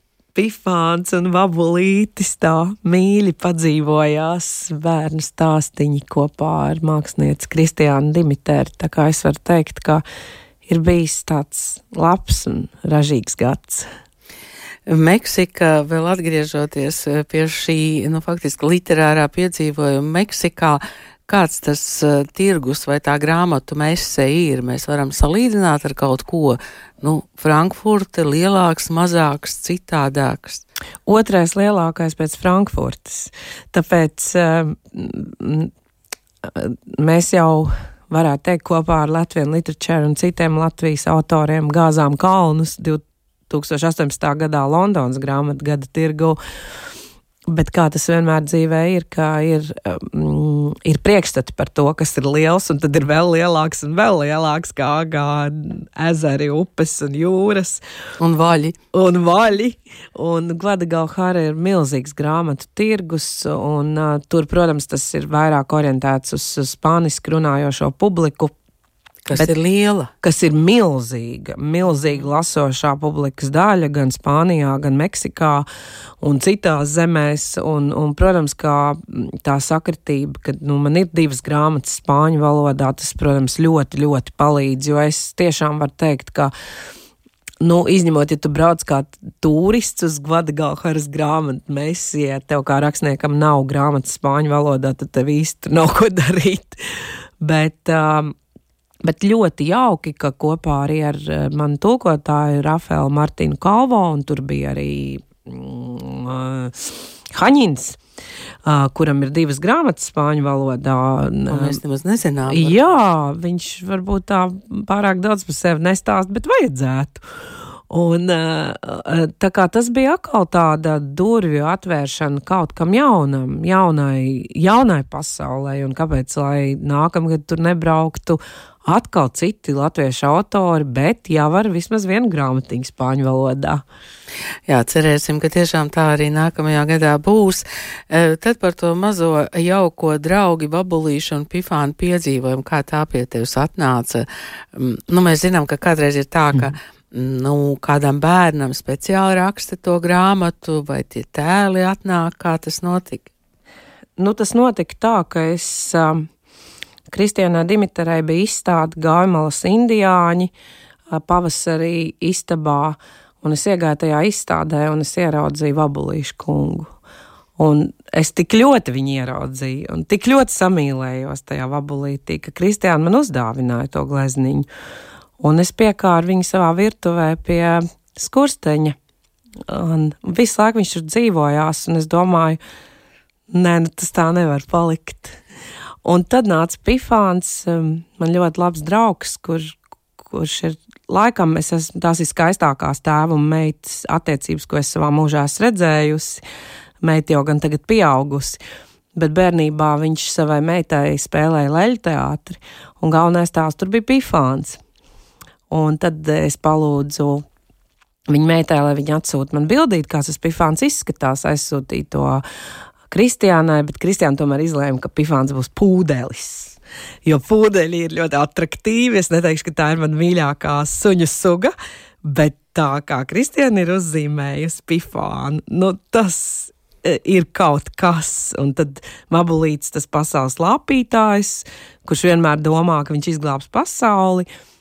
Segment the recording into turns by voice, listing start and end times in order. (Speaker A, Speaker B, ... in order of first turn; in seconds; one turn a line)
Speaker A: 0.3-10.0
Speaker A: 10.7-13.9
Speaker B: 14.9-30.6
Speaker A: 31.1-35.7
Speaker A: 36.4-46.4
Speaker A: 47.5-57.8
Speaker B: 58.2-58.8
Speaker A: 58.9-68.5
Speaker B: 69.2-70.1
Speaker A: 70.2-75.7
Speaker A: 76.2-86.5
Speaker A: 87.6-98.3
Speaker A: 99.0-108.0
Speaker A: 108.7-111.8
Speaker B: 111.5-112.8
Speaker A: 112.5-117.2
Speaker A: 117.9-133.8
Speaker B: 134.7-153.3
Speaker A: 154.2-156.3
Speaker A: 157.1-160.5
Speaker A: 161.1-166.9
Speaker A: 167.6-174.7
Speaker A: 175.4-179.0
Speaker A: 179.7-182.6
Speaker A: 183.5-185.4
Speaker A: 186.0-196.4
Speaker A: 197.0-198.6
Speaker A: 199.1-204.8
Speaker A: 205.7-207.5
Speaker A: 208.3-212.4
Speaker A: 213.1-221.7
Speaker A: 222.2-234.5